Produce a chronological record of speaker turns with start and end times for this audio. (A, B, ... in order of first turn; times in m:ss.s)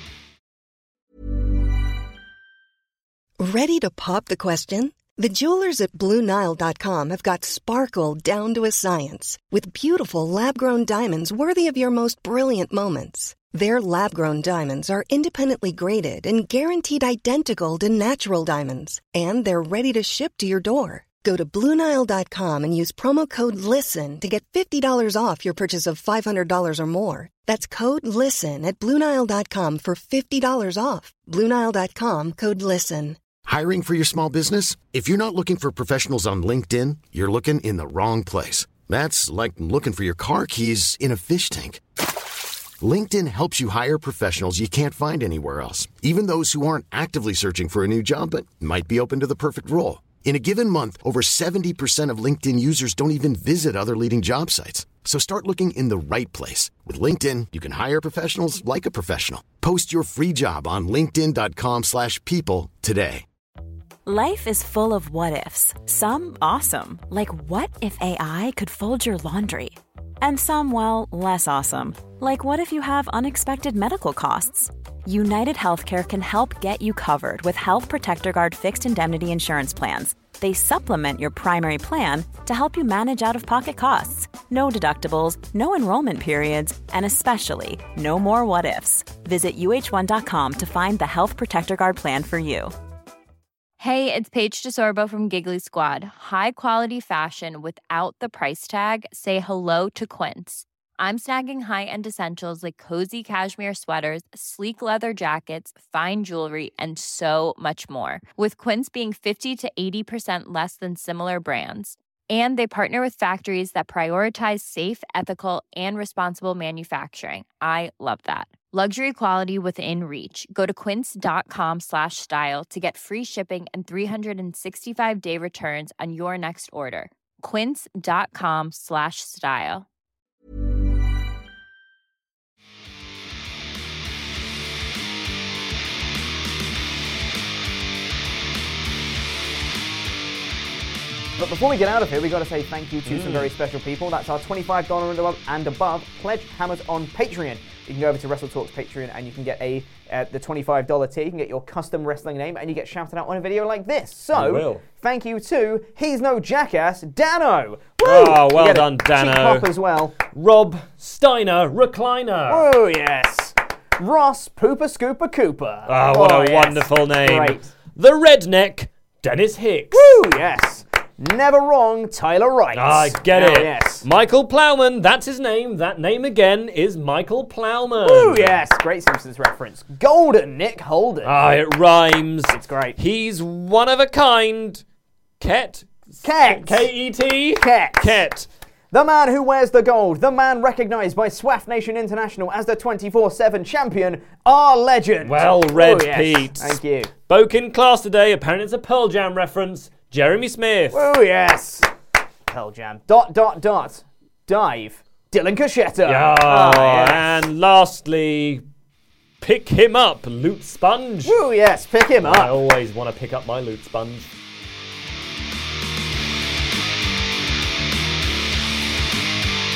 0:03.4-0:33.2 A
0:33.4-0:41.8 B
0:42.8-1:03.2 B
1:04.0-1:32.7 C
1:33.8-2:09.8 D
2:21.4-2:40.2 E
2:23.0-2:23.5 F
2:34.3-2:34.8 F
2:38.0-2:42.7 F
2:42.5-2:47.7 E
2:45.8-2:50.1 F
2:49.9-2:54.0 E
2:52.7-2:58.6 F
2:58.0-3:01.3 E
3:01.2-3:04.8 F
3:02.5-3:03.0 E
3:05.4-3:08.5 F
3:06.2-3:06.9 E
3:07.5-3:08.1 E
3:08.9-3:17.1 E
3:15.2-3:21.1 F
3:20.9-3:21.9 E
3:22.5-3:27.3 E
3:26.0-3:28.6 F
3:29.4-3:31.4 F
3:31.2-3:32.6 E
3:32.2-3:34.3 F